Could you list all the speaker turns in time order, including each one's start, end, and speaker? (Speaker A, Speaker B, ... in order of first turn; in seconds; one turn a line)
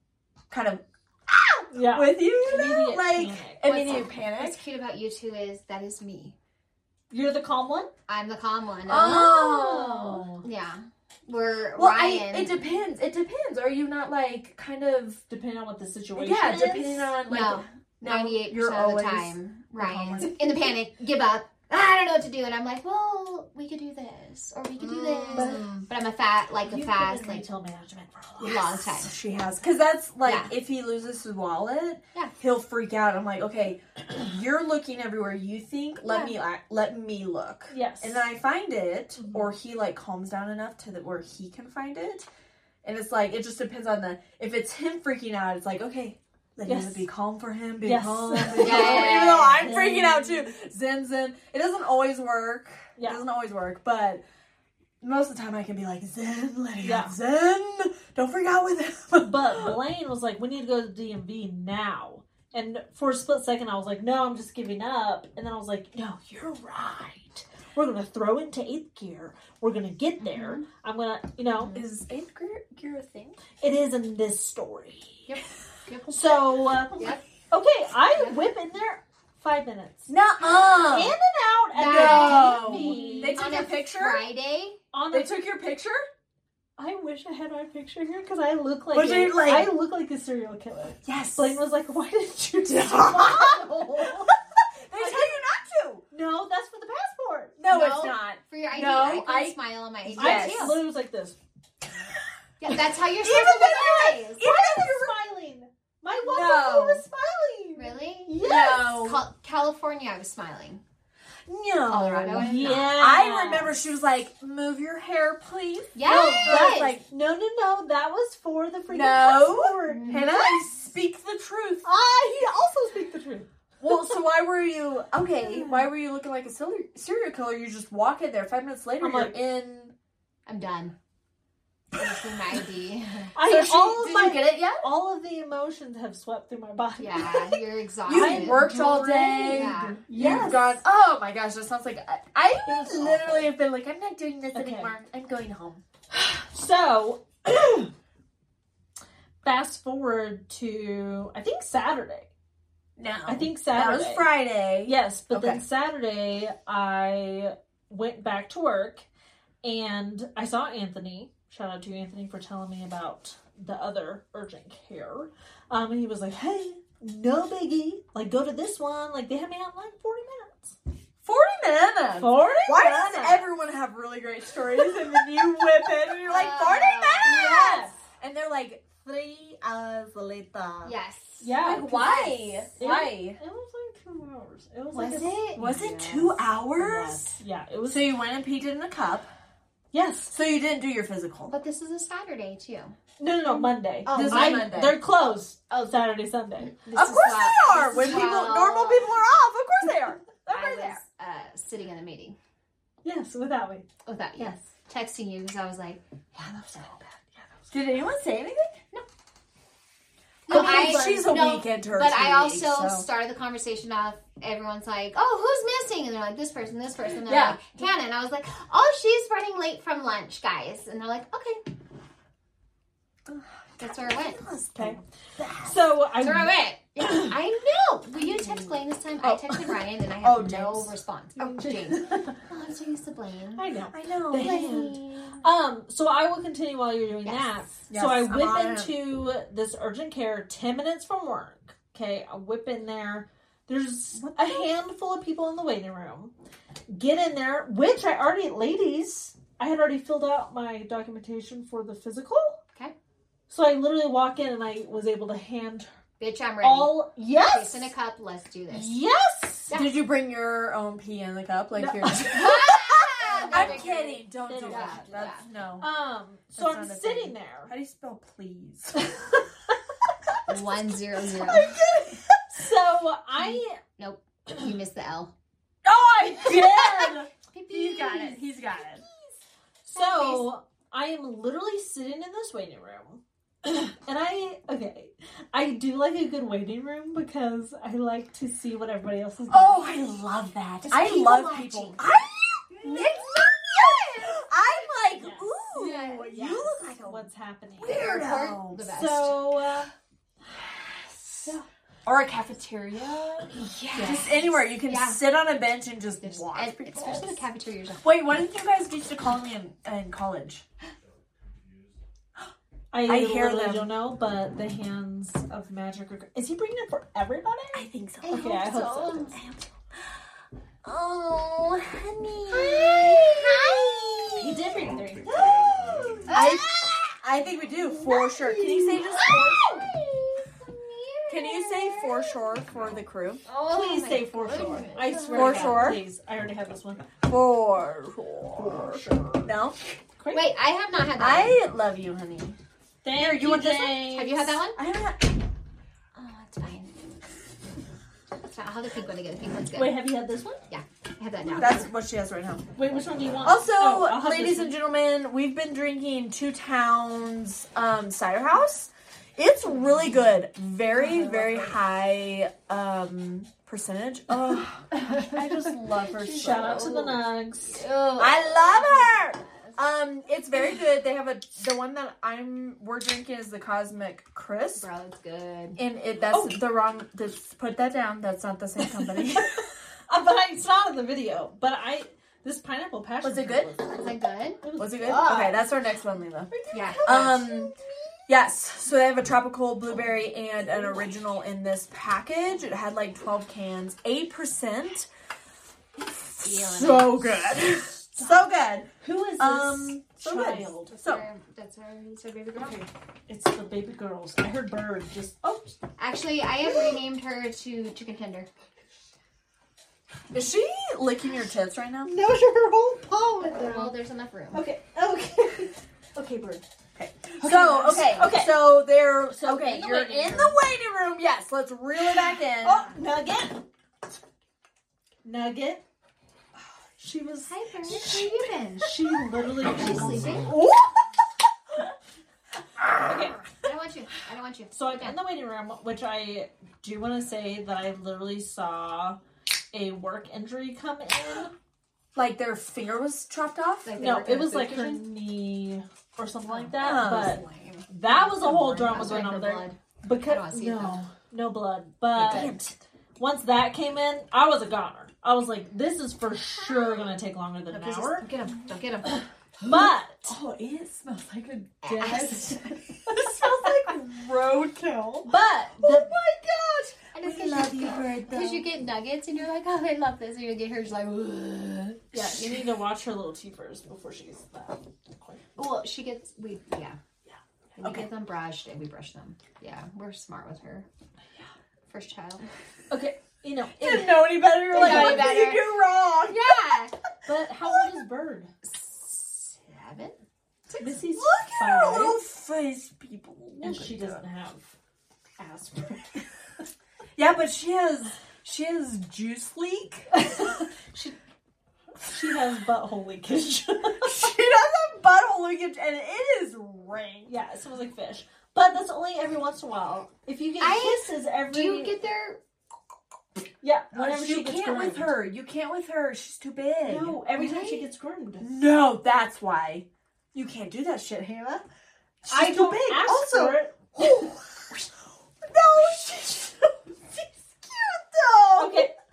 Speaker A: 0.5-4.6
Speaker B: 1.7-3.6
Speaker C: 3.6-6.3
Speaker B: 7.1-7.9
Speaker C: 8.1-9.9
Speaker A: 8.8-10.2
Speaker B: 9.1-10.4
Speaker C: 10.4-12.7
Speaker A: 11.7-15.2
Speaker B: 15.3-17.1
Speaker A: 16.1-20.7
Speaker C: 17.2-27.4
Speaker A: 24.8-25.9
Speaker B: 25.3-25.7
Speaker B: 26.6-28.7
Speaker C: 28.4-29.1
Speaker A: 28.4-42.3
Speaker C: 30.2-30.5
Speaker C: 36.0-36.3
Speaker B: 37.7-38.2
Speaker B: 39.2-39.5
Speaker A: 42.8-54.2
Speaker B: 46.6-47.0
Speaker B: 47.8-50.5
Speaker C: 48.5-49.7
Speaker B: 53.0-53.2
Speaker A: 55.0-59.8
Speaker B: 56.8-57.1
Speaker B: 59.2-71.8
Speaker C: 70.3-70.6
Speaker A: 71.7-73.4
Speaker B: 73.6-75.3
Speaker C: 75.3-77.2
Speaker B: 76.1-83.6
Speaker A: 80.1-81.1
Speaker C: 81.7-84.8
Speaker A: 81.8-84.2
Speaker B: 84.9-85.3
Speaker A: 85.1-86.0
Speaker B: 86.8-94.4
Speaker A: 88.9-89.7
Speaker A: 91.0-91.6
Speaker A: 92.7-94.3
Speaker A: 94.8-96.0
Speaker B: 94.9-95.4
Speaker B: 96.1-97.6
Speaker A: 97.6-100.8
Speaker C: 97.7-100.8
Speaker B: 100.2-101.3
Speaker C: 102.6-104.5
Speaker A: 103.1-105.2
Speaker B: 104.4-108.9
Speaker A: 106.2-107.0
Speaker C: 107.8-110.8
Speaker A: 108.4-109.2
Speaker A: 111.5-117.0
Speaker B: 111.8-113.7
Speaker C: 111.9-113.0
Speaker C: 115.9-117.0
Speaker B: 116.1-120.6
Speaker A: 118.9-121.9
Speaker C: 119.8-120.3
Speaker B: 121.8-123.9
Speaker A: 123.8-129.9
Speaker B: 125.4-125.9
Speaker B: 129.0-129.4
Speaker C: 130.4-130.9
Speaker C: 131.9-133.3
Speaker B: 133.3-140.8
Speaker A: 133.4-134.9
Speaker C: 137.0-138.7
Speaker A: 138.1-145.8
Speaker C: 139.3-140.3
Speaker B: 142.7-143.4
Speaker B: 144.5-144.9
Speaker B: 146.2-147.9
Speaker B: 149.4-152.3
Speaker A: 153.0-155.6
Speaker B: 153.2-154.3
Speaker B: 154.8-159.1
Speaker B: 159.6-170.8
Speaker A: 171.2-180.9
Speaker B: 172.2-173.4
Speaker C: 176.2-177.9
Speaker B: 177.2-177.9
Speaker C: 180.8-182.7
Speaker B: 181.4-182.2
Speaker A: 181.6-183.4
Speaker B: 182.8-185.6
Speaker C: 184.9-186.3
Speaker A: 185.5-187.3
Speaker B: 186.8-188.1
Speaker A: 187.9-189.3
Speaker B: 189.9-190.3
Speaker A: 190.3-191.5
Speaker C: 191.5-192.9
Speaker B: 193.2-196.8
Speaker C: 194.1-194.7
Speaker A: 194.1-195.0
Speaker C: 196.8-199.1
Speaker A: 196.9-201.0
Speaker C: 200.5-202.4
Speaker B: 203.0-203.9
Speaker C: 204.0-206.9
Speaker B: 206.4-207.5
Speaker A: 207.7-208.8
Speaker C: 210.5-221.6
Speaker A: 210.5-213.0
Speaker B: 210.5-211.1
Speaker A: 217.2-217.7
Speaker A: 223.3-225.8
Speaker C: 223.8-224.4
Speaker B: 225.6-226.5
Speaker C: 226.2-233.7
Speaker A: 229.2-230.9
Speaker B: 231.4-232.3
Speaker B: 233.6-246.3
Speaker A: 233.9-235.4
Speaker C: 234.3-235.3
Speaker A: 237.9-238.9
Speaker A: 244.1-244.7
Speaker B: 246.9-252.6
Speaker B: 253.5-255.9
Speaker C: 256.2-258.9
Speaker B: 256.6-257.9
Speaker B: 258.7-259.7
Speaker C: 259.7-259.9
Speaker A: 259.7-265.9
Speaker B: 261.8-263.9
Speaker C: 262.2-265.4
Speaker B: 264.4-267.7
Speaker A: 266.5-269.0
Speaker B: 269.0-269.3
Speaker C: 270.5-271.7
Speaker B: 271.4-273.8
Speaker A: 271.5-272.2
Speaker C: 273.4-275.3
Speaker A: 275.8-279.0
Speaker B: 276.4-277.2
Speaker C: 277.5-278.5
Speaker B: 279.9-290.0
Speaker C: 279.9-280.4
Speaker A: 289.5-298.9
Speaker C: 290.9-292.0
Speaker C: 292.8-294.1
Speaker B: 295.1-298.1
Speaker C: 295.7-296.5
Speaker C: 297.9-299.5
Speaker B: 298.9-299.9
Speaker A: 300.8-301.5
Speaker A: 302.0-307.4
Speaker C: 303.6-305.2
Speaker B: 303.9-304.3
Speaker C: 306.2-308.1
Speaker A: 308.0-310.6
Speaker B: 312.9-319.3
Speaker A: 313.0-313.9
Speaker A: 317.7-319.7
Speaker C: 318.2-319.4
Speaker A: 320.8-324.7
Speaker C: 322.5-324.2
Speaker B: 324.3-326.3
Speaker C: 326.3-326.9
Speaker A: 326.3-329.8
Speaker C: 328.0-332.4
Speaker B: 328.1-329.0
Speaker A: 331.3-333.4
Speaker C: 333.4-335.9
Speaker B: 333.7-337.1
Speaker A: 335.3-336.0
Speaker A: 337.2-339.8
Speaker B: 338.5-339.5
Speaker B: 340.2-340.5
Speaker C: 340.3-341.6
Speaker A: 341.2-342.6
Speaker B: 343.0-344.6
Speaker A: 343.1-345.3
Speaker C: 344.0-344.8
Speaker C: 346.1-346.9
Speaker C: 348.4-350.0
Speaker B: 349.7-350.6
Speaker C: 350.7-351.9
Speaker A: 351.5-352.7
Speaker B: 352.7-354.8
Speaker A: 353.4-367.1
Speaker C: 361.1-361.5
Speaker B: 361.2-361.5
Speaker B: 364.5-367.9
Speaker C: 366.3-369.8
Speaker A: 368.2-374.9
Speaker C: 374.8-375.8
Speaker A: 375.8-379.6
Speaker B: 376.3-376.6
Speaker B: 378.8-384.0
Speaker A: 383.2-383.7
Speaker C: 383.9-384.6
Speaker B: 384.6-385.7
Speaker A: 384.8-386.5
Speaker B: 386.5-387.9
Speaker C: 386.7-387.5
Speaker A: 387.0-387.7
Speaker A: 388.3-395.1
Speaker B: 390.7-391.1
Speaker A: 395.9-401.2
Speaker C: 396.4-397.4
Speaker B: 399.0-400.9
Speaker C: 400.9-402.8
Speaker B: 402.6-405.8
Speaker C: 406.0-408.5
Speaker A: 410.3-412.1
Speaker B: 412.0-413.9
Speaker C: 413.6-414.6
Speaker B: 414.5-416.6
Speaker A: 416.9-422.9
Speaker B: 417.4-418.7
Speaker C: 417.9-418.2
Speaker B: 419.3-420.6
Speaker B: 422.6-423.6
Speaker B: 425.2-425.8
Speaker B: 427.0-431.0
Speaker C: 427.5-428.9
Speaker C: 429.8-430.5
Speaker B: 432.9-433.4
Speaker C: 433.6-435.2
Speaker B: 434.7-439.2
Speaker B: 439.7-441.5
Speaker A: 442.1-443.9
Speaker C: 443.8-445.0
Speaker B: 444.0-452.6
Speaker A: 446.8-447.9
Speaker C: 448.0-451.0
Speaker A: 452.1-452.8
Speaker B: 453.2-458.3
Speaker C: 457.7-459.2
Speaker B: 459.1-460.4
Speaker A: 459.6-468.6
Speaker C: 461.8-462.6
Speaker B: 465.2-466.1
Speaker C: 467.1-472.3
Speaker B: 472.1-475.4
Speaker C: 475.6-477.0
Speaker C: 477.8-480.9
Speaker C: 481.9-482.5
Speaker B: 482.9-485.5
Speaker A: 483.8-486.7
Speaker C: 484.7-485.6
Speaker C: 486.2-486.9
Speaker B: 487.2-488.5
Speaker A: 487.6-487.9
Speaker C: 488.6-490.2
Speaker C: 490.7-491.0
Speaker B: 490.8-492.2
Speaker A: 491.0-494.2
Speaker B: 493.6-494.7
Speaker B: 495.4-496.3
Speaker A: 497.1-500.2
Speaker B: 500.1-501.1
Speaker B: 502.0-504.3
Speaker A: 504.0-507.3
Speaker B: 507.3-512.0
Speaker C: 510.6-512.4
Speaker B: 513.6-515.1
Speaker A: 513.9-517.2
Speaker B: 516.9-518.5
Speaker C: 517.3-517.8
Speaker A: 518.4-521.6
Speaker A: 522.2-524.8
Speaker B: 522.3-524.3
Speaker A: 525.4-528.9
Speaker B: 528.6-528.9